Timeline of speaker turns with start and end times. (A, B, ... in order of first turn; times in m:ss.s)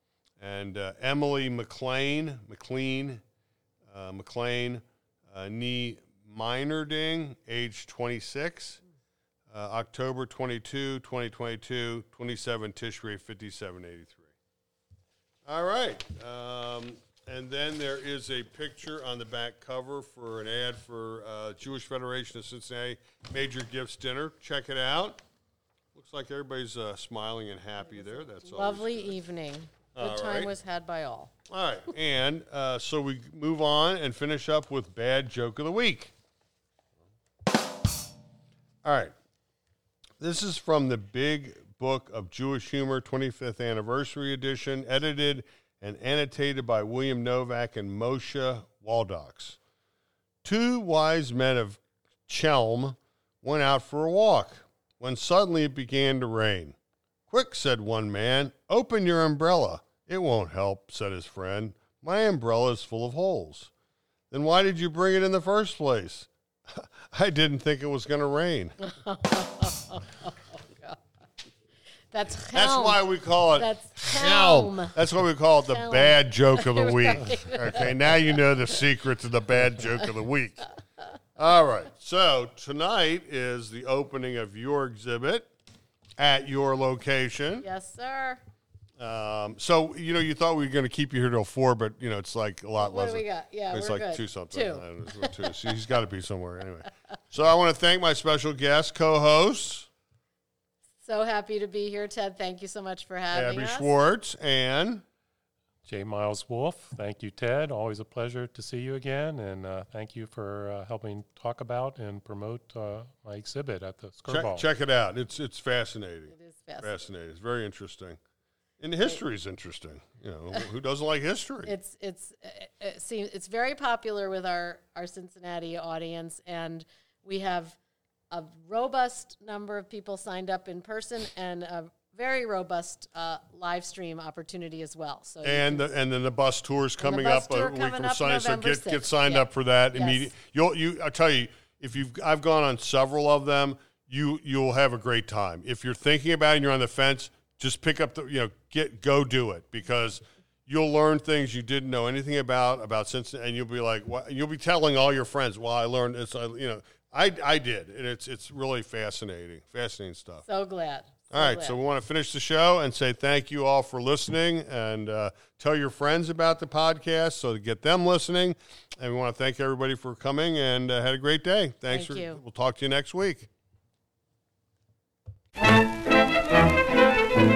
0:00.4-0:03.2 A
0:03.9-0:08.8 A
0:09.5-0:14.3 A
0:15.4-0:25.2 A
0:25.9-0:29.2 A
0:28.2-0:31.3 B
0:29.9-0:30.5 A
0:31.5-0:36.1 A
0:38.8-0:39.1 A
0:40.2-0:49.6 A
0:50.4-0:56.8 A
0:57.3-1:03.7 A
1:04.3-1:08.8 A
1:08.8-1:11.0 B
1:12.1-1:15.0 B
1:12.5-1:20.7 A
1:15.7-1:17.9 B
1:21.4-1:25.5 A
1:26.2-1:27.6 A
1:27.6-1:28.4 B
1:29.0-1:39.9 A
1:32.8-1:35.7 B
1:41.0-1:43.9 B
1:43.3-1:45.0 A
1:45.8-1:54.6 C
1:54.3-1:58.2 A
1:56.3-1:56.9 B
1:58.8-2:01.7 A
2:01.6-2:07.8 B
2:08.3-2:15.8 B
2:15.4-2:40.4 A
2:17.0-2:20.3 B
2:40.4-2:41.8 B
2:41.3-2:53.5 A
2:51.9-2:52.4 B